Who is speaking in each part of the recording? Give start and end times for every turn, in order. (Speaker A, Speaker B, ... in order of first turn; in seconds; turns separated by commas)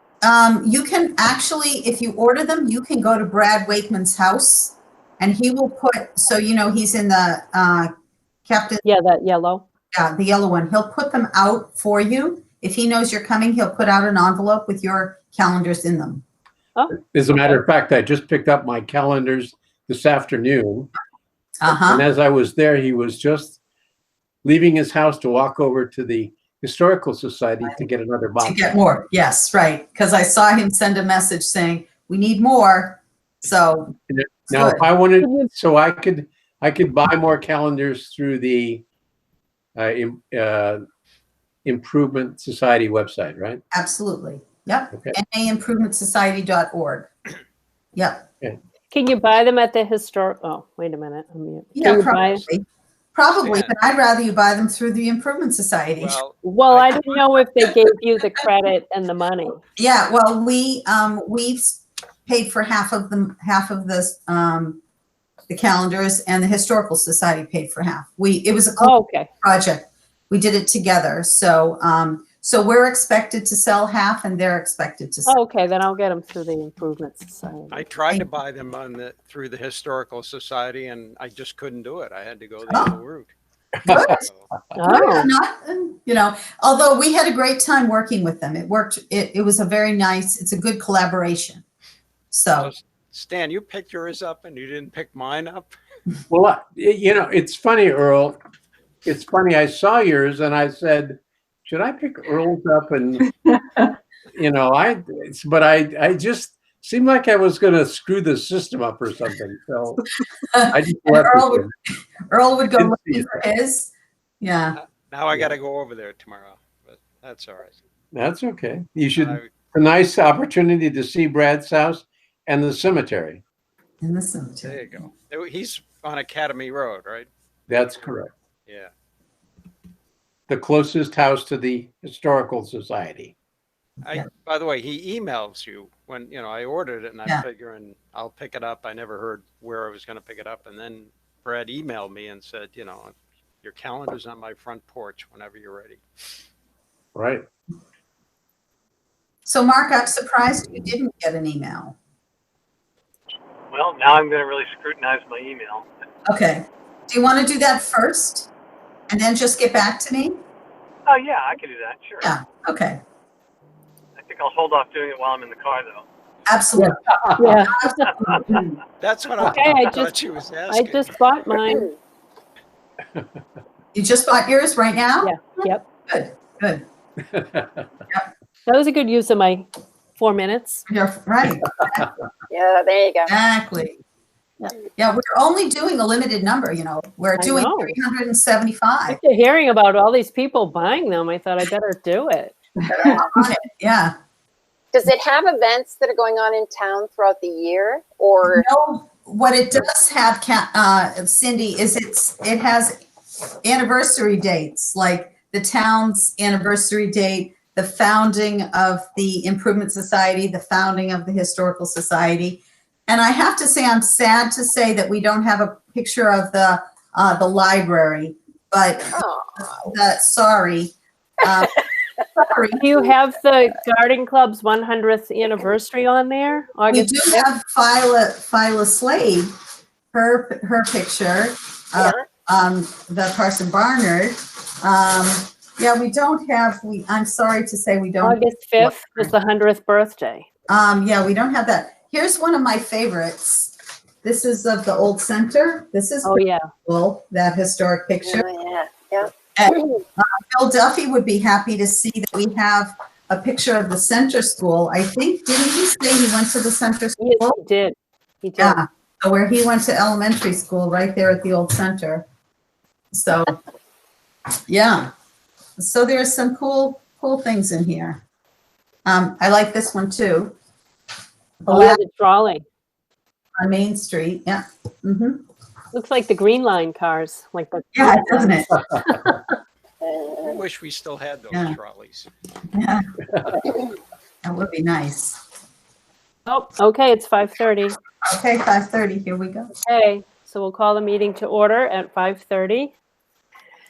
Speaker A: 0.2-7.9, Speaker A: 8.5-8.8, Speaker B: 8.8-9.6, Speaker A: 9.9-16.2, Speaker C: 16.9-20.9, Speaker A: 21.6-22.0, Speaker C: 21.7-23.6, Speaker C: 24.4-28.6, Speaker A: 28.4-34.0, Speaker C: 34.1-38.8, Speaker A: 34.5-34.8, Speaker B: 35.2-35.5, Speaker C: 39.8-40.8, Speaker C: 41.6-43.6, Speaker A: 43.7-47.1, Speaker A: 47.9-48.2, Speaker B: 48.9-52.5, Speaker A: 51.7-56.2, Speaker D: 53.4-53.7, Speaker D: 56.0-57.4, Speaker B: 56.4-59.6, Speaker A: 59.8-64.8, Speaker A: 65.5-75.3, Speaker B: 68.8-69.3, Speaker B: 75.2-77.7, Speaker D: 77.7-83.3, Speaker A: 82.7-82.9, Speaker C: 83.8-84.2, Speaker A: 83.8-84.2, Speaker D: 83.9-84.5, Speaker B: 84.8-85.3, Speaker A: 84.8-91.6, Speaker A: 92.3-92.7, Speaker D: 92.5-95.7, Speaker C: 96.3-98.4, Speaker C: 99.0-103.4, Speaker C: 104.3-110.0, Speaker A: 110.5-111.6, Speaker C: 110.7-111.7, Speaker A: 112.3-114.8, Speaker C: 112.8-113.4, Speaker D: 114.7-117.8, Speaker C: 118.1-123.4, Speaker D: 119.2-119.5, Speaker A: 124.0-125.1, Speaker D: 124.6-128.1, Speaker C: 127.7-128.3, Speaker C: 130.5-133.3, Speaker D: 134.0-146.0, Speaker C: 147.1-147.4, Speaker A: 149.4-151.9, Speaker E: 153.7-155.8, Speaker A: 156.3-158.5, Speaker A: 159.1-160.4, Speaker E: 161.1-162.3, Speaker A: 162.2-163.0, Speaker E: 164.2-166.0, Speaker A: 166.5-166.9, Speaker C: 167.1-167.5, Speaker B: 167.4-168.2, Speaker A: 167.6-168.8, Speaker D: 169.0-171.1, Speaker B: 169.4-170.2, Speaker B: 170.7-171.9, Speaker F: 171.7-171.9, Speaker A: 173.9-175.5, Speaker B: 175.2-175.8, Speaker A: 176.1-176.8, Speaker C: 177.3-177.9, Speaker B: 178.7-179.7, Speaker B: 180.2-180.8, Speaker A: 180.9-182.1, Speaker F: 182.5-183.3, Speaker A: 183.3-184.0, Speaker A: 184.6-189.2, Speaker B: 187.4-187.9, Speaker B: 189.1-192.6, Speaker A: 192.9-194.1, Speaker F: 192.9-193.3, Speaker F: 194.9-198.7, Speaker A: 198.4-202.9, Speaker A: 203.6-221.8, Speaker F: 219.1-219.6, Speaker A: 222.3-222.8, Speaker B: 222.8-227.4, Speaker A: 226.9-229.5, Speaker A: 230.1-239.3, Speaker F: 232.0-232.2, Speaker B: 238.2-240.4, Speaker A: 240.7-248.5, Speaker B: 246.2-246.7, Speaker F: 248.2-249.8, Speaker A: 249.5-257.6, Speaker B: 257.2-258.8, Speaker A: 258.6-262.2, Speaker A: 263.1-263.5, Speaker A: 264.7-265.1, Speaker A: 265.8-268.2, Speaker A: 269.1-270.5, Speaker A: 271.6-272.0, Speaker B: 271.7-272.6, Speaker A: 273.6-275.4, Speaker B: 275.9-279.5, Speaker A: 277.9-278.7, Speaker F: 280.0-280.6, Speaker D: 280.4-282.3, Speaker A: 282.7-283.0, Speaker A: 284.4-285.4, Speaker B: 286.5-288.0, Speaker A: 288.2-289.7, Speaker B: 289.8-292.9